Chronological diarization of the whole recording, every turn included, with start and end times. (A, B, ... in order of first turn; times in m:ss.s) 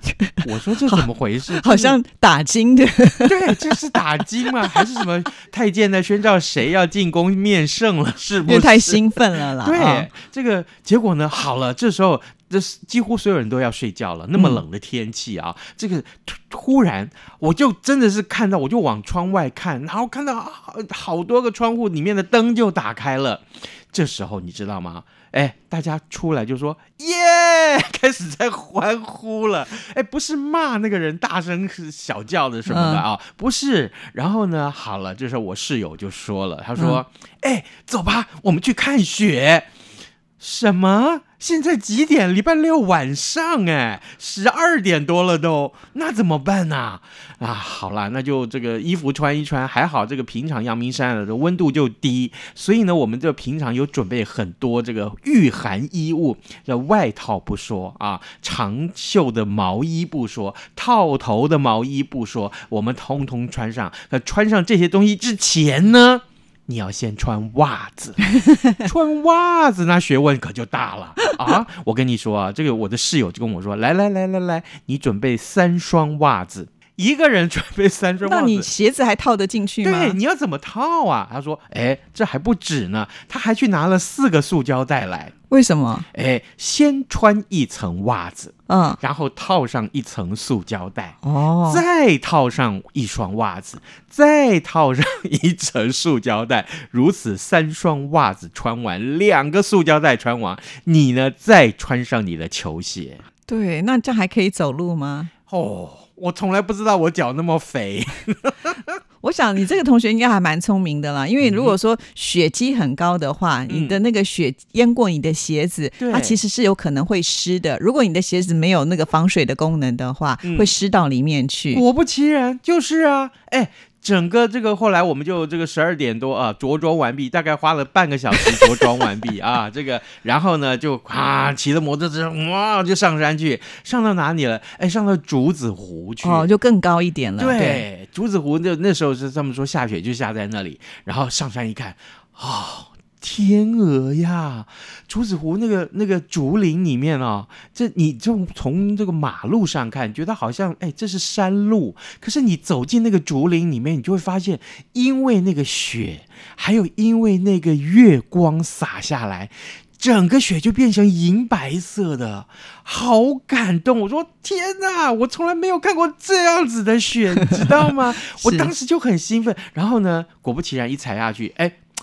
0:00.2-0:03.8 A
0:00.4-0:02.0 B
0:03.2-0:09.0 B
0:04.6-0:05.0 A
0:08.4-0:10.1 A
0:09.6-0:39.7 B
0:14.4-0:14.6 A
0:32.7-0:33.0 A
0:36.8-0:37.0 A
0:40.4-1:08.2 B
1:08.4-1:08.7 A
1:08.8-1:18.7 B
1:18.2-1:20.2 A
1:19.8-1:25.3 B
1:25.5-1:26.1 A
1:26.1-1:43.2 B
1:28.7-1:29.0 A
1:31.2-1:31.8 A
1:43.5-1:45.3 A
1:45.5-1:49.0 B
1:49.2-2:01.8 A
1:51.4-1:51.8 B
1:53.7-1:54.0 B
1:56.0-1:56.4 B
2:00.4-2:00.7 B
2:01.7-2:16.5 B
2:16.2-2:17.9 A
2:17.4-2:51.8 B
2:47.4-2:47.7 A
2:48.2-2:48.7 A